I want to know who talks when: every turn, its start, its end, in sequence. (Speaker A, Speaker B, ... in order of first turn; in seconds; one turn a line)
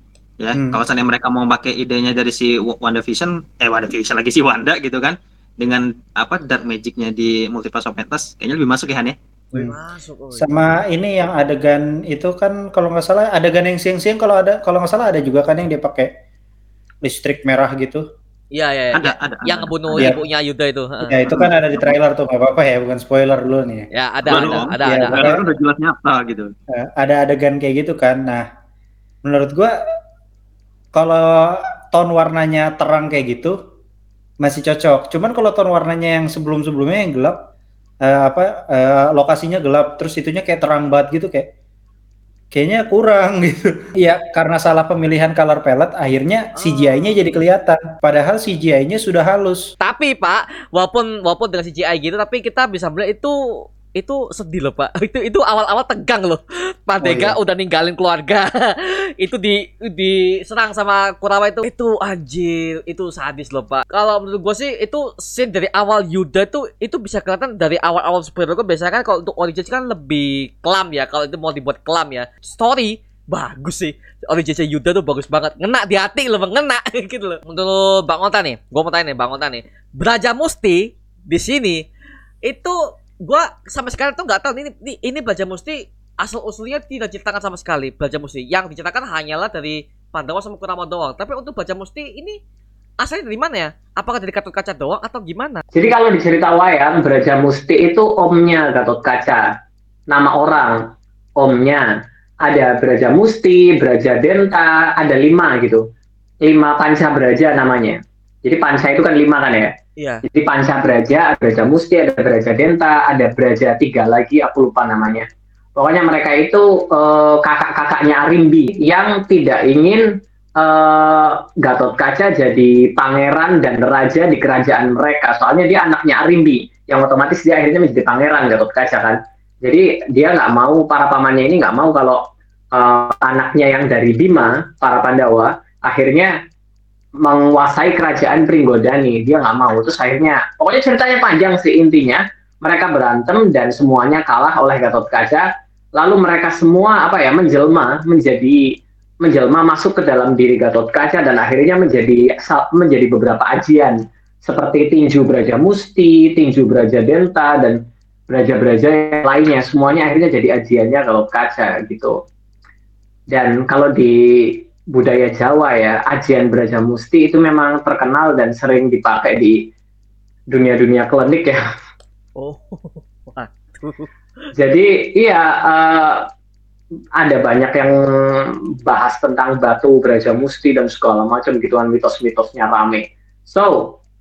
Speaker A: 0.4-9.2
Speaker B: 0.5-0.8
Speaker C: 9.5-10.7
Speaker B: 10.4-16.1
Speaker B: 17.1-18.0
Speaker C: 18.5-21.4
Speaker A: 18.9-20.1
Speaker B: 21.0-25.4
Speaker A: 21.3-21.9
Speaker C: 23.9-25.6
Speaker A: 24.3-26.5
Speaker B: 26.7-28.4
Speaker B: 29.2-29.8
Speaker B: 30.9-33.5
Speaker B: 34.4-37.4
Speaker B: 38.0-41.5
Speaker B: 42.5-49.7
Speaker C: 46.6-47.4
Speaker C: 49.8-81.8
Speaker B: 57.0-57.4
Speaker C: 82.5-92.4
Speaker C: 93.0-95.6
Speaker D: 95.8-99.5
Speaker D: 100.1-100.8
Speaker D: 101.4-101.9
Speaker D: 102.4-105.8
Speaker D: 106.5-109.7
Speaker C: 110.0-110.2
Speaker D: 110.3-120.0
Speaker D: 120.6-132.2
Speaker D: 132.7-136.3
Speaker D: 137.2-145.5
Speaker D: 146.0-148.6
Speaker D: 149.2-157.8
Speaker D: 158.3-162.2
Speaker D: 163.3-169.6
Speaker D: 170.5-171.6
Speaker C: 172.4-174.1
Speaker D: 174.5-176.3
Speaker D: 177.2-184.0